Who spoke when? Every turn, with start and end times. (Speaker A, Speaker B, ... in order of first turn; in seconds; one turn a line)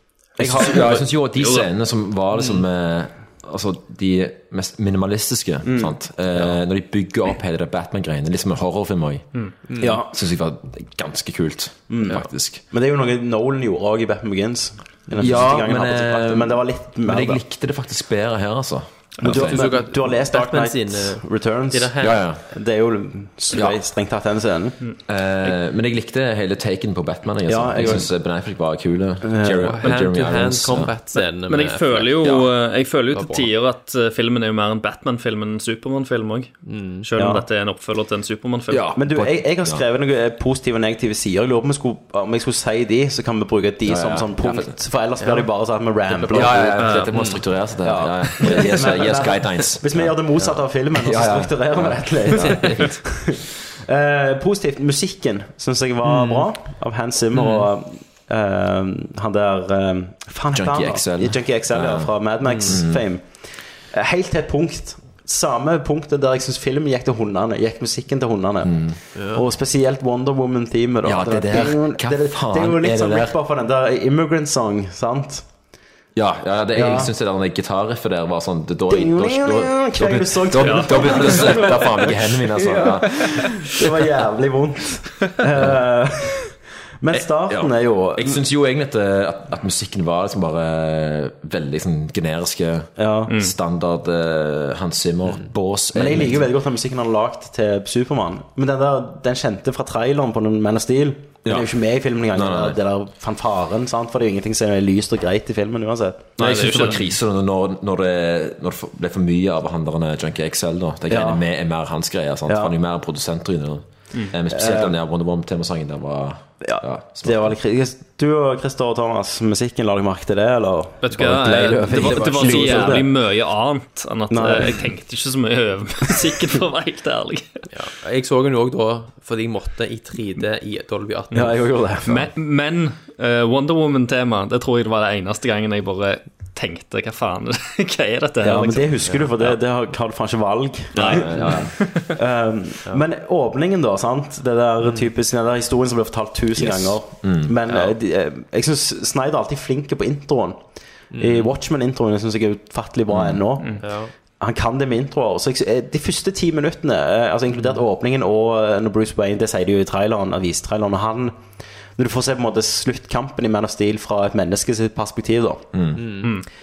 Speaker A: 0.4-9.2
Speaker B: 0.4-0.7
Speaker C: 0.4-1.1
Speaker D: 1.3-1.7
Speaker C: 2.4-2.6
Speaker B: 5.6-6.0
Speaker C: 9.7-10.0
Speaker B: 9.8-10.1
Speaker A: 9.8-12.6
Speaker B: 11.9-17.4
Speaker A: 15.2-19.6
Speaker B: 19.2-24.8
Speaker C: 19.3-22.2
Speaker A: 22.0-22.4
Speaker A: 23.5-23.8
Speaker D: 24.8-25.5
Speaker A: 25.1-30.9
Speaker B: 27.5-28.1
Speaker B: 29.2-29.8
Speaker C: 29.7-32.5
Speaker D: 31.1-38.9
Speaker C: 33.1-33.5
Speaker C: 36.7-37.1
Speaker B: 37.2-37.5
Speaker A: 38.7-39.8
Speaker B: 38.9-46.9
Speaker A: 43.9-44.8
Speaker C: 45.2-45.5
Speaker C: 46.1-47.5
Speaker A: 46.3-50.3
Speaker D: 46.8-47.1
Speaker B: 47.8-75.5
Speaker A: 50.9-52.6
Speaker C: 52.4-52.9
Speaker C: 56.0-56.5
Speaker C: 57.3-57.7
Speaker A: 60.5-63.0
Speaker C: 62.5-62.8
Speaker A: 68.6-69.0
Speaker C: 69.2-69.4
Speaker A: 71.0-73.4
Speaker A: 76.2-83.5
Speaker B: 76.7-77.1
Speaker B: 78.9-88.4
Speaker D: 80.6-81.8
Speaker A: 87.5-96.5
Speaker B: 93.0-93.3
Speaker D: 93.3-93.5
Speaker B: 96.0-106.7
Speaker A: 101.5-101.7
Speaker A: 102.3-102.8
Speaker A: 106.4-117.5
Speaker D: 106.4-107.1
Speaker B: 111.1-111.4
Speaker B: 112.5-112.7
Speaker B: 114.5-114.9
Speaker B: 116.6-123.1
Speaker D: 121.0-127.6
Speaker C: 121.2-123.0
Speaker B: 124.3-124.9
Speaker C: 127.7-131.6
Speaker B: 131.3-132.3
Speaker D: 132.1-139.6
Speaker B: 138.4-150.6
Speaker A: 140.9-141.7
Speaker D: 141.0-142.1
Speaker A: 146.6-147.5
Speaker C: 147.7-147.9
Speaker C: 151.1-151.5
Speaker B: 151.2-153.9
Speaker A: 153.1-153.4
Speaker D: 153.6-153.8
Speaker C: 153.8-154.1
Speaker B: 154.4-161.4
Speaker B: 161.9-165.7
Speaker A: 165.7-166.0
Speaker C: 166.0-166.3